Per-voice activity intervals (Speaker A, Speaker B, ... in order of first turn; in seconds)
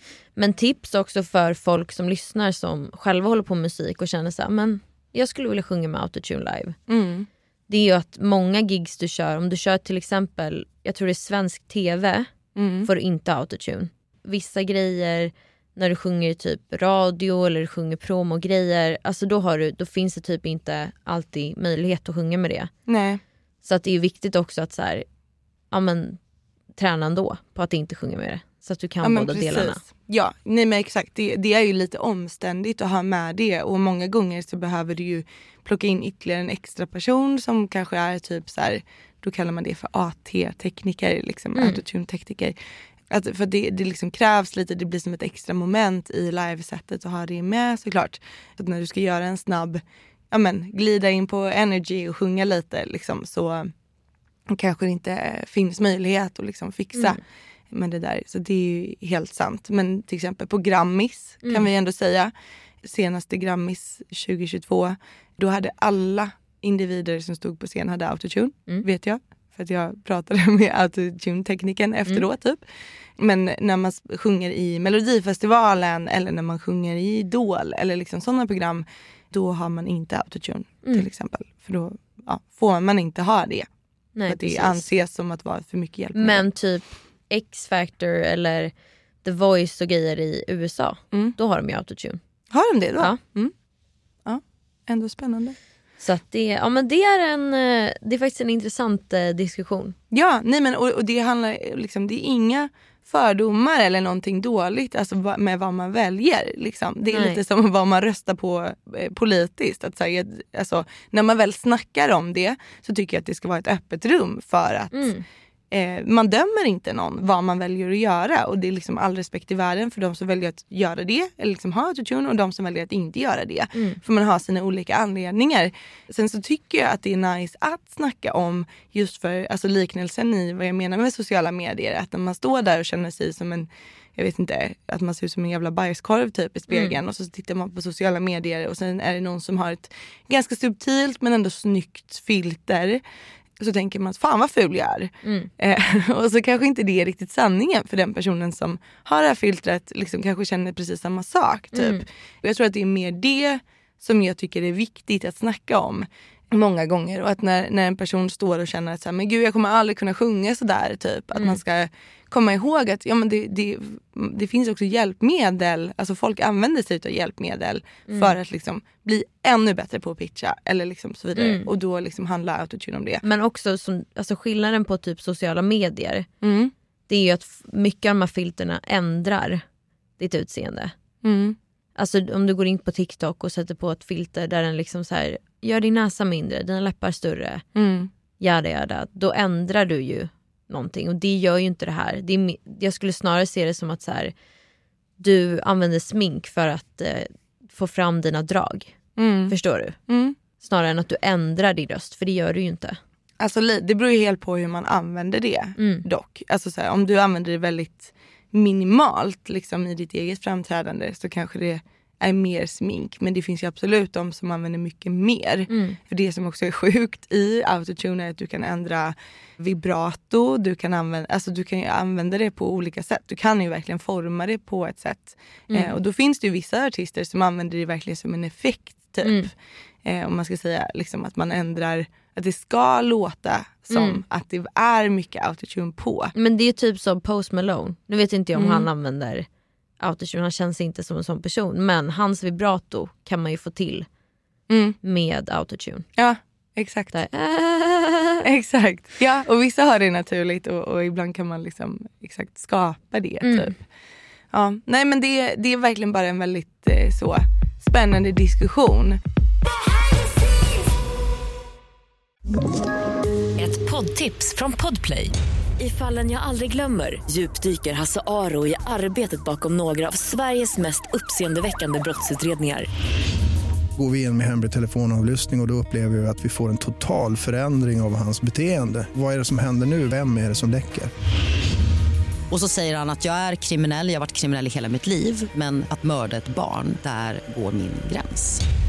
Speaker A: 0.3-6.8, 7.7-12.3, 12.8-22.7, 23.6-25.0, 25.7-26.2, 26.8-29.8, 84.2-84.8, 86.1-88.7, 89.2-92.2, 96.0-100.0, 107.1-107.4, 114.9-115.2, 123.7-124.0, 145.2-145.5, 151.7-152.0, 168.1-168.3, 171.3-171.7, 173.2-176.3, 177.1-179.6, 180.2-180.9, 181.9-187.6, 188.4-194.3, 195.2-198.9, 199.5-199.9, 200.6-203.0, 205.8-206.0, 215.7-216.0, 229.2-229.5, 233.9-234.2, 236.3-239.5, 240.0-244.1, 245.0-246.1, 247.1-248.4, 253.4-253.7
Speaker B: 6.9-7.3, 12.6-12.9, 22.9-23.2, 29.0-42.5, 43.1-53.7, 54.5-62.3, 62.8-72.6, 73.2-83.7, 84.3-86.4, 92.5-93.5, 94.2-95.5, 100.1-115.1, 115.7-143.0, 143.6-173.2, 176.4-176.7, 181.2-181.6, 187.7-188.1, 199.2-199.5, 200.1-200.3, 203.4-229.5, 230.0-236.3, 238.5-238.9, 244.7-245.0, 246.2-247.2, 248.4-253.8, 254.5-259.2
Speaker C: 263.6-272.9
Speaker D: 273.9-281.1
Speaker E: 282.5-288.6